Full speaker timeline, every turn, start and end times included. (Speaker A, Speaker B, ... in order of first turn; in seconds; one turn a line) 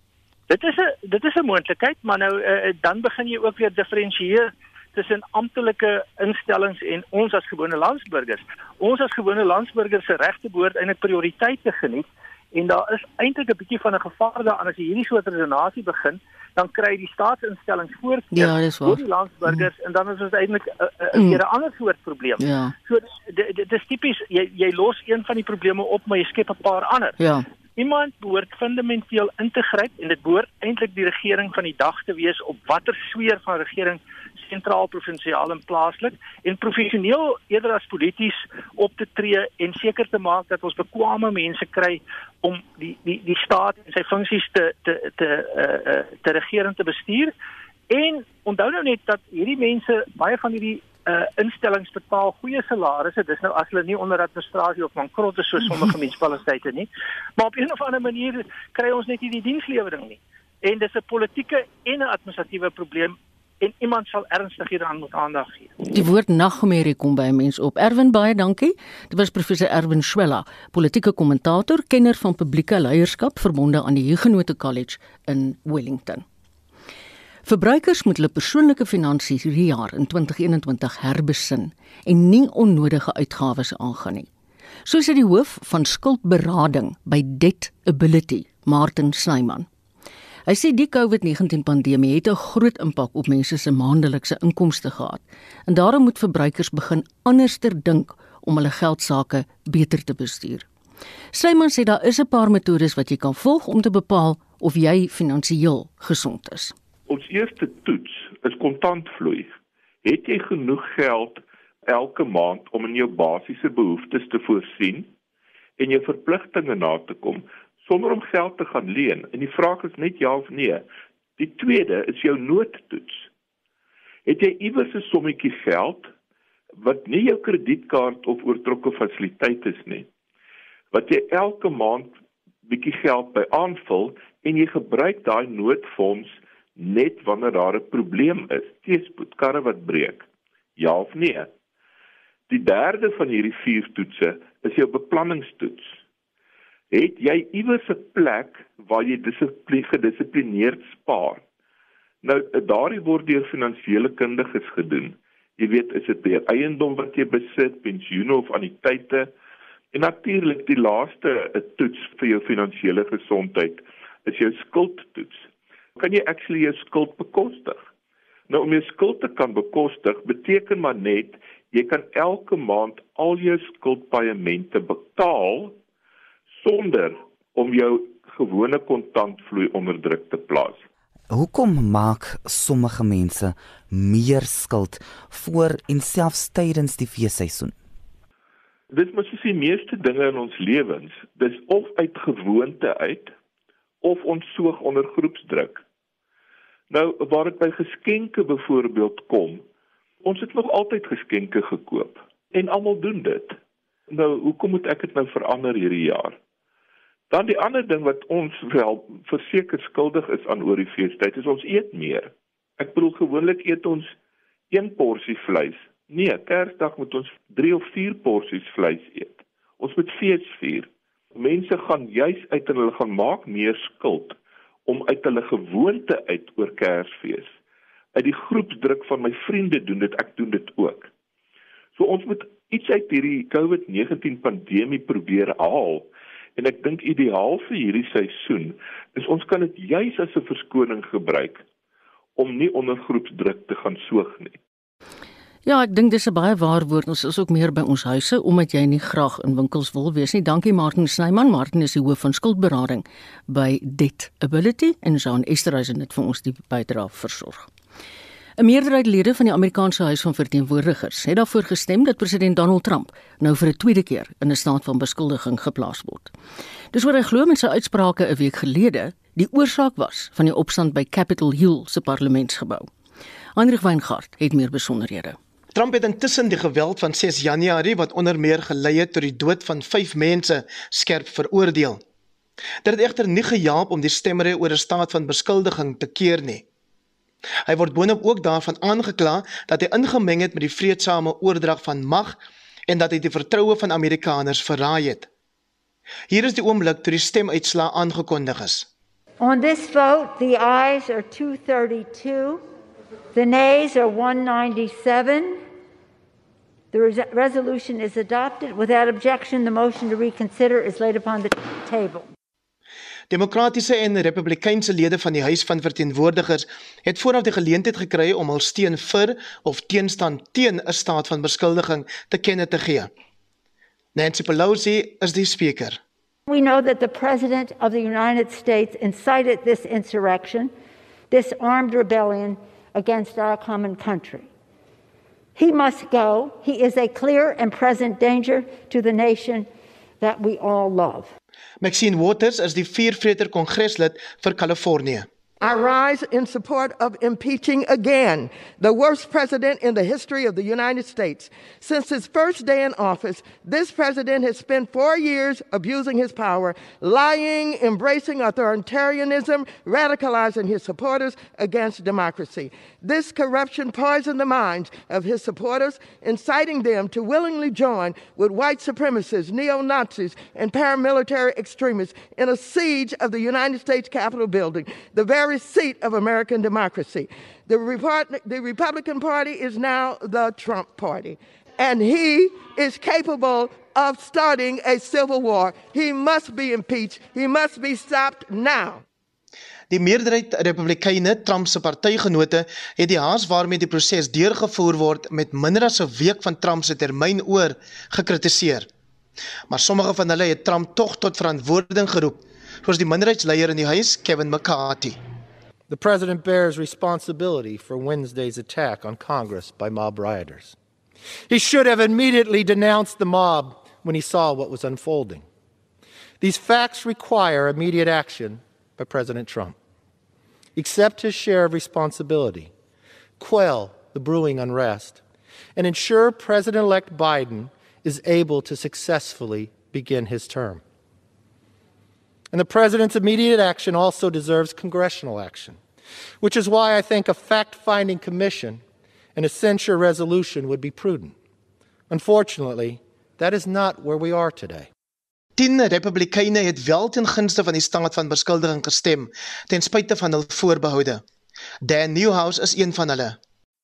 Speaker A: 0.5-27.2
Speaker B: 18.3-19.7
Speaker B: 21.1-21.4
Speaker B: 22.4-22.8
Speaker B: 27.2-27.4
Speaker A: 27.8-47.3
Speaker A: 47.9-65.8
Speaker B: 65.9-76.2
Speaker B: 77.5-84.3
Speaker B: 84.9-89.7
Speaker B: 90.5-100.7
Speaker B: 101.3-106.7
Speaker C: 107.1-115.1
Speaker C: 115.8-120.9
Speaker C: 121.4-123.3
Speaker C: 124.3-126.1
Speaker C: 126.8-130.1
Speaker C: 130.9-132.1
Speaker C: 132.7-141.5
Speaker C: 142.5-146.0
Speaker C: 146.9-151.4
Speaker C: 152.2-159.3
Speaker C: 159.9-167.8
Speaker C: 168.5-175.8
Speaker C: 176.6-180.8
Speaker D: 181.3-187.8
Speaker C: 188.9-193.3
Speaker C: 194.0-195.8
Speaker C: 196.9-199.6
Speaker C: 200.2-203.6
Speaker C: 204.1-206.4
Speaker C: 207.3-214.1
Speaker C: 214.7-227.5
Speaker C: 228.1-231.1
Speaker C: 231.9-241.6
Speaker C: 242.4-244.6
Speaker B: 245.6-257.7
Speaker B: 258.6-266.3
Speaker B: 266.9-272.9
Speaker B: 273.6-275.4
Speaker E: 275.7-282.0
Speaker E: 282.8-286.6
Speaker E: 287.7-292.4
Speaker E: 292.9-295.3
Speaker E: 296.3-298.9
Speaker F: 299.4-302.6
Speaker F: 303.3-305.6
Speaker F: 306.9-312.3
Speaker E: 313.3-323.1
Speaker E: 324.1-326.0
Speaker F: 326.5-330.7
Speaker F: 331.3-334.5
Speaker F: 335.6-339.7
Speaker F: 340.2-341.3
Speaker E: 341.8-345.3
Speaker G: 345.6-389.0
Speaker E: 389.9-398.9
Speaker E: 399.7-405.2
Speaker H: 405.9-410.8
Speaker H: 411.5-415.4
Speaker H: 416.4-419.8
Speaker H: 420.8-422.7
Speaker H: 423.4-425.2
Speaker H: 425.8-430.8
Speaker H: 432.5-435.8
Speaker H: 436.4-438.8
Speaker H: 439.4-441.4
Speaker H: 442.1-444.9
Speaker E: 445.6-451.2
Speaker E: 451.8-453.4